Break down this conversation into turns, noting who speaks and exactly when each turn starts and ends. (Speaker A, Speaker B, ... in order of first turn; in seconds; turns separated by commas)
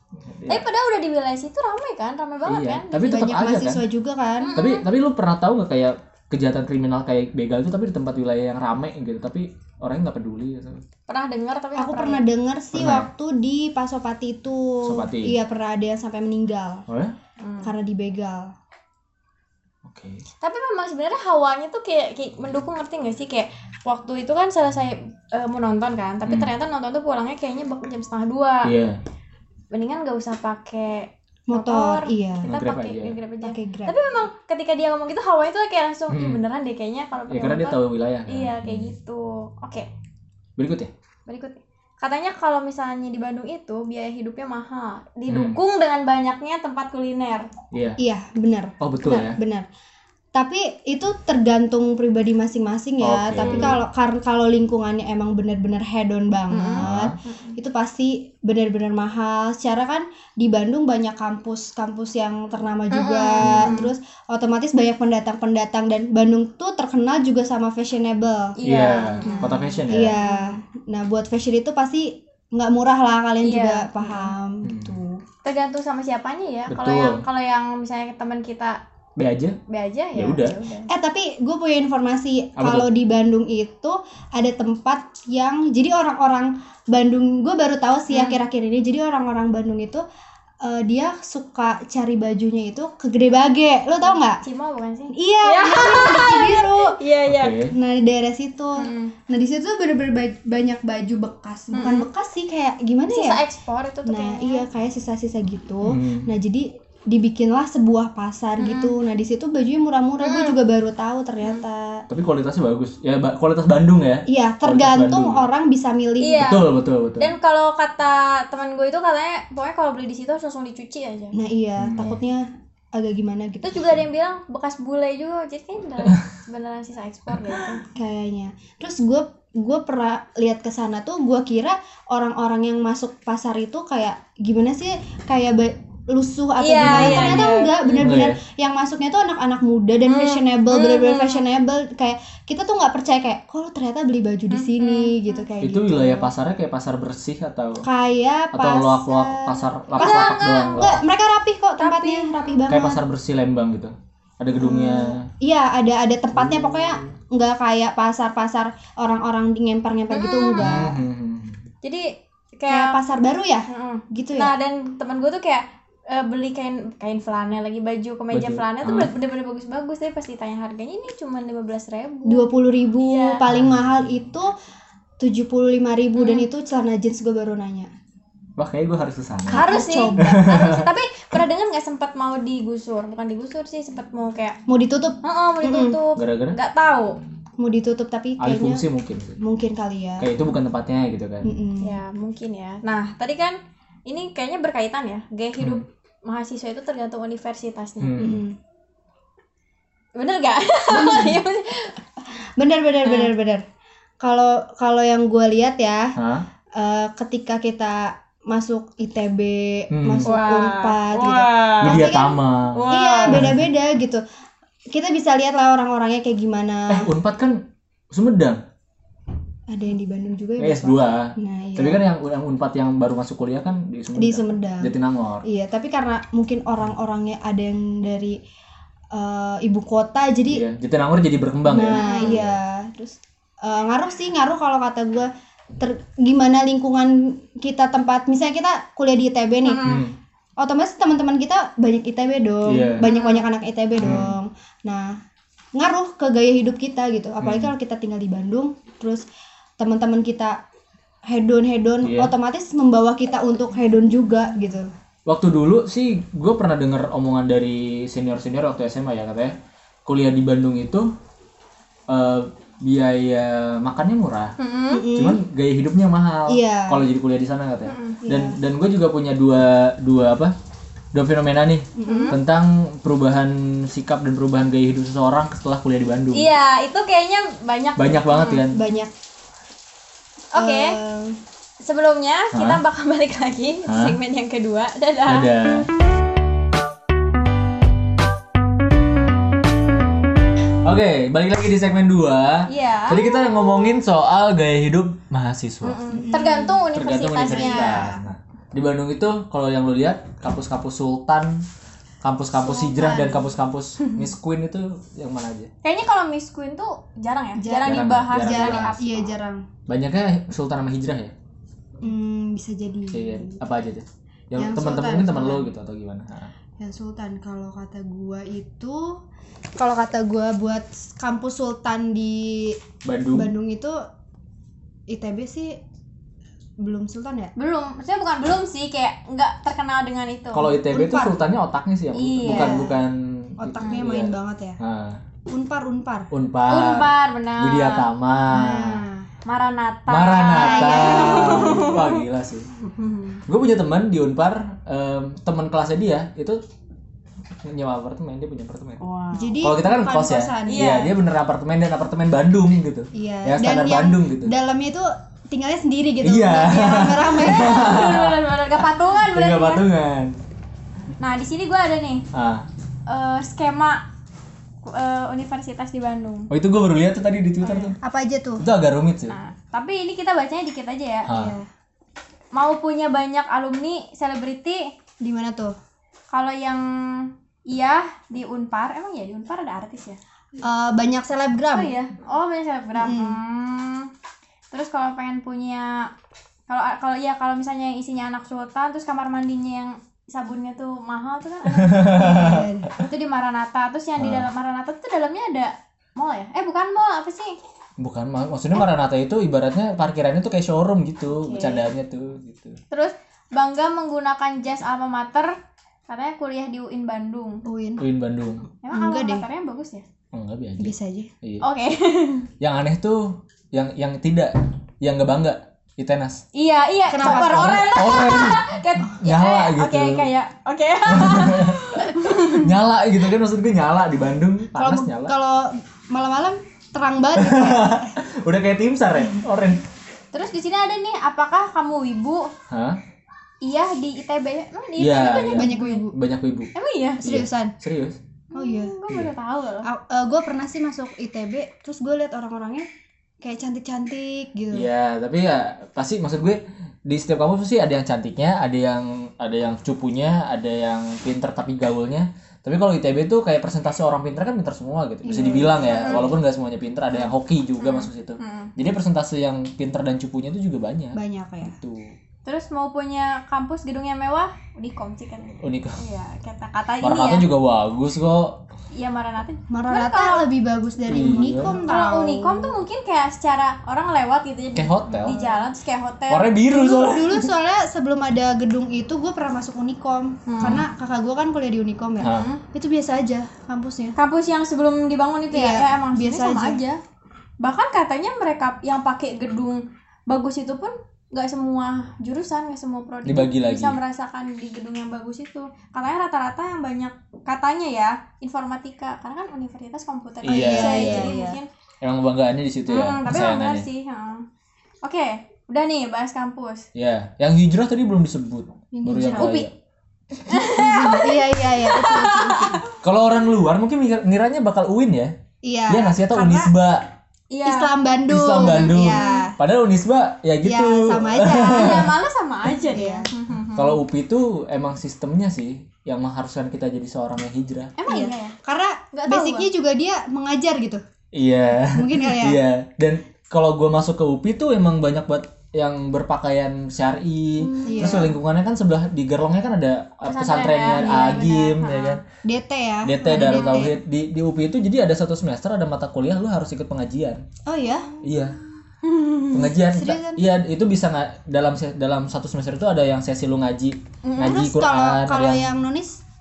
Speaker A: 0.2-0.6, Speaker B: 0.5-3.1, Speaker A: 2.5-3.8, Speaker C: 2.9-4.6, Speaker B: 4.4-4.8, Speaker A: 4.5-10.8, Speaker B: 11.1-12.2, Speaker C: 11.8-16.8, Speaker A: 12.7-13.1, Speaker A: 14.8-15.3, Speaker A: 16.9-17.1, Speaker B: 17.4-17.7, Speaker C: 17.6-18.5, Speaker A: 19.8-20.2, Speaker B: 20.4-28.7, Speaker A: 26.2-26.5, Speaker A: 28.6-29.0, Speaker B: 29.7-39.9, Speaker C: 31.5-32.5, Speaker A: 32.5-33.2, Speaker C: 33.4-34.0, Speaker A: 36.1-36.4, Speaker A: 37.3-38.9, Speaker A: 40.6-40.9, Speaker B: 41.3-47.5, Speaker A: 45.3-45.6, Speaker A: 47.7-48.0, Speaker C: 48.0-49.7, Speaker A: 48.8-49.4, Speaker C: 50.3-68.5, Speaker A: 53.0-53.8, Speaker B: 53.4-53.7, Speaker B: 56.5-57.5, Speaker A: 56.8-57.1, Speaker B: 62.9-63.9, Speaker A: 63.4-63.8, Speaker B: 68.6-70.6, Speaker A: 68.7-70.2, Speaker C: 69.2-75.2, Speaker B: 73.4-74.3, Speaker A: 74.6-75.0, Speaker B: 75.4-78.8, Speaker A: 76.7-77.2, Speaker A: 79.2-79.6, Speaker B: 79.7-80.9, Speaker A: 80.1-80.6, Speaker C: 80.9-90.0, Speaker A: 82.6-82.9, Speaker B: 88.1-88.4, Speaker C: 90.6-94.4, Speaker B: 94.4-97.5, Speaker C: 95.1-97.0, Speaker A: 97.2-97.7, Speaker C: 97.7-103.4, Speaker B: 98.7-99.1, Speaker B: 101.7-102.0, Speaker B: 103.1-104.6, Speaker C: 104.0-112.0, Speaker A: 105.8-106.3, Speaker B: 108.6-108.9, Speaker B: 110.2-110.5, Speaker A: 112.1-115.5, Speaker C: 114.3-116.6, Speaker B: 116.2-116.7, Speaker A: 116.4-117.3, Speaker B: 117.2-121.3, Speaker C: 121.3-124.0, Speaker A: 121.8-122.2, Speaker B: 123.6-127.8, Speaker C: 127.9-146.3, Speaker B: 136.6-138.0, Speaker A: 136.8-138.4, Speaker B: 140.1-141.4, Speaker B: 144.5-145.4, Speaker A: 145.6-147.9, Speaker C: 147.8-153.0, Speaker A: 148.5-151.0, Speaker B: 150.0-150.9, Speaker B: 151.8-152.6, Speaker A: 152.7-155.2, Speaker C: 154.6-161.0, Speaker A: 156.3-157.1, Speaker B: 160.1-160.9, Speaker A: 160.6-161.6, Speaker B: 161.8-162.1, Speaker B: 162.6-163.0, Speaker C: 162.7-164.5, Speaker B: 163.7-172.5, Speaker A: 168.3-169.1, Speaker C: 172.2-174.5, Speaker B: 173.0-173.4, Speaker A: 173.5-174.1, Speaker C: 175.2-177.9, Speaker B: 176.2-176.4, Speaker A: 178.6-180.9, Speaker C: 179.5-180.6, Speaker B: 179.5-184.6, Speaker C: 184.7-186.0, Speaker B: 185.2-187.2, Speaker A: 186.2-186.6, Speaker C: 187.6-188.8, Speaker A: 188.4-189.4, Speaker C: 189.4-190.3, Speaker A: 190.2-191.5, Speaker C: 191.4-192.0, Speaker B: 191.8-198.2, Speaker A: 195.6-195.8, Speaker A: 198.0-198.4, Speaker C: 198.2-198.6, Speaker B: 200.2-202.0, Speaker C: 200.9-201.4, Speaker C: 202.6-203.6, Speaker B: 203.0-203.3, Speaker C: 204.2-206.1, Speaker A: 206.2-206.4, Speaker C: 206.7-214.2, Speaker A: 209.9-210.3, Speaker B: 210.2-212.1, Speaker A: 211.8-213.6, Speaker B: 212.7-213.5, Speaker C: 214.9-217.1, Speaker A: 216.9-217.6, Speaker A: 218.1-218.6, Speaker C: 219.7-222.0, Speaker A: 220.6-225.4, Speaker C: 224.2-228.4, Speaker C: 229.1-230.6, Speaker A: 230.5-232.6, Speaker C: 231.7-239.8, Speaker B: 231.9-232.4, Speaker B: 239.6-240.1, Speaker A: 239.8-240.1, Speaker C: 240.6-245.2, Speaker A: 242.7-243.1, Speaker B: 243.0-243.5, Speaker A: 244.0-244.3, Speaker C: 245.8-249.2, Speaker A: 247.4-247.7, Speaker C: 249.8-250.6, Speaker C: 251.3-254.9, Speaker A: 252.0-252.3, Speaker A: 255.2-261.1, Speaker A: 262.1-264.5, Speaker B: 264.6-265.1, Speaker C: 264.9-265.4, Speaker A: 265.1-270.5, Speaker C: 266.5-267.0, Speaker B: 267.9-268.2, Speaker C: 268.2-268.6, Speaker A: 271.1-276.5, Speaker C: 271.9-272.4, Speaker B: 272.0-272.3, Speaker B: 276.3-278.9, Speaker A: 278.0-278.8, Speaker C: 278.7-279.1, Speaker B: 280.5-281.0, Speaker C: 280.6-281.4, Speaker B: 281.8-285.5, Speaker A: 282.5-282.8, Speaker A: 283.9-284.2, Speaker A: 285.3-285.9, Speaker A: 290.8-296.4, Speaker B: 292.7-293.8, Speaker B: 295.8-298.1, Speaker C: 296.1-296.8, Speaker A: 296.9-301.6, Speaker C: 297.4-298.2, Speaker A: 302.2-305.7, Speaker C: 302.6-303.4, Speaker B: 302.9-303.3, Speaker B: 305.8-309.3, Speaker C: 307.6-309.6, Speaker A: 307.8-308.9, Speaker A: 309.9-311.3, Speaker C: 312.0-313.6, Speaker A: 313.1-316.5, Speaker C: 314.6-315.7, Speaker C: 316.8-319.1, Speaker C: 319.8-322.8, Speaker A: 323.0-323.5, Speaker C: 323.3-324.0, Speaker C: 325.1-325.8, Speaker C: 326.8-327.5, Speaker B: 327.6-330.8, Speaker A: 330.5-335.2, Speaker C: 330.9-331.4, Speaker B: 332.1-332.8, Speaker C: 332.4-333.0, Speaker C: 333.6-334.8, Speaker C: 335.5-336.3, Speaker A: 336.3-339.0, Speaker B: 336.7-338.0, Speaker C: 338.5-339.3, Speaker B: 339.4-342.1, Speaker A: 340.1-342.7, Speaker C: 340.5-342.0, Speaker B: 342.8-343.4, Speaker A: 343.5-346.6, Speaker A: 347.6-349.0, Speaker B: 349.0-349.5, Speaker C: 349.3-351.1, Speaker A: 349.6-354.5, Speaker B: 350.7-351.1, Speaker C: 353.1-357.9, Speaker A: 356.2-360.4, Speaker B: 357.4-359.8, Speaker B: 361.2-362.2, Speaker A: 362.3-362.6, Speaker B: 363.1-364.0, Speaker B: 364.8-366.5, Speaker A: 366.5-368.0, Speaker B: 367.6-367.9, Speaker C: 368.0-368.6, Speaker A: 368.6-369.4, Speaker B: 369.3-371.3, Speaker A: 371.3-371.6, Speaker C: 371.3-371.7, Speaker B: 372.5-374.9, Speaker C: 375.2-375.8, Speaker B: 376.3-380.2, Speaker C: 380.6-381.9, Speaker B: 381.7-384.1, Speaker C: 383.0-383.4, Speaker B: 384.7-386.1, Speaker B: 386.7-397.6, Speaker A: 391.7-392.9, Speaker C: 392.2-392.9, Speaker A: 394.2-394.5, Speaker A: 398.0-402.8, Speaker B: 401.3-401.9, Speaker B: 402.9-405.5, Speaker B: 406.1-407.6, Speaker C: 407.6-408.0, Speaker A: 408.0-408.7, Speaker B: 408.8-410.1, Speaker C: 408.9-409.4, Speaker A: 410.3-411.6, Speaker C: 410.8-411.3, Speaker B: 411.6-412.5, Speaker A: 412.6-416.4, Speaker B: 416.5-422.7, Speaker C: 417.1-417.9, Speaker A: 417.2-420.3, Speaker A: 421.1-425.3, Speaker C: 424.7-428.1, Speaker A: 427.4-429.8, Speaker B: 430.3-432.5, Speaker A: 432.7-433.0, Speaker B: 433.6-436.0, Speaker A: 435.0-436.7, Speaker C: 435.5-436.2, Speaker B: 436.7-437.2, Speaker C: 437.2-437.7, Speaker A: 437.2-438.2, Speaker B: 438.5-439.9, Speaker C: 438.5-438.9, Speaker C: 439.8-442.9, Speaker C: 443.4-444.9, Speaker A: 444.7-462.1, Speaker C: 455.2-456.4, Speaker B: 455.9-456.2, Speaker B: 457.8-458.7, Speaker C: 461.1-461.7, Speaker B: 462.4-467.4, Speaker A: 465.6-466.0, Speaker A: 467.0-468.6, Speaker B: 468.9-470.4, Speaker C: 469.7-472.8, Speaker A: 471.1-471.8, Speaker B: 471.1-476.5, Speaker A: 474.7-475.4, Speaker C: 475.1-475.6, Speaker A: 476.3-477.5, Speaker C: 476.7-484.1, Speaker B: 480.5-480.8, Speaker A: 480.6-480.9, Speaker A: 482.2-482.5, Speaker B: 482.3-482.6, Speaker B: 484.1-487.0, Speaker C: 485.5-486.8, Speaker B: 487.6-501.7, Speaker A: 493.2-494.0, Speaker A: 500.4-501.4, Speaker C: 500.5-501.6, Speaker A: 502.0-503.9, Speaker B: 502.9-504.4, Speaker B: 505.0-506.9, Speaker A: 506.9-509.7, Speaker C: 508.9-509.5, Speaker B: 509.2-509.7, Speaker B: 510.5-512.9, Speaker C: 510.6-512.8, Speaker A: 512.9-515.3, Speaker C: 515.6-516.7, Speaker A: 515.9-517.1, Speaker B: 517.5-517.9, Speaker C: 517.6-519.5, Speaker A: 518.3-522.2, Speaker B: 518.5-519.5, Speaker C: 520.6-522.1, Speaker B: 521.6-524.0, Speaker C: 522.9-523.3, Speaker A: 523.7-527.9, Speaker B: 528.0-528.6, Speaker C: 528.1-531.0, Speaker B: 529.1-529.7, Speaker A: 531.3-542.2, Speaker C: 531.9-532.6, Speaker B: 537.6-538.3, Speaker C: 537.8-538.4, Speaker B: 540.2-542.2, Speaker C: 540.9-541.6, Speaker C: 542.4-544.0, Speaker A: 543.0-547.4, Speaker B: 543.4-543.8, Speaker C: 547.6-548.1, Speaker A: 548.2-548.6, Speaker B: 549.1-549.5, Speaker A: 549.5-555.7, Speaker C: 549.9-550.4, Speaker B: 554.2-554.6, Speaker C: 554.4-556.2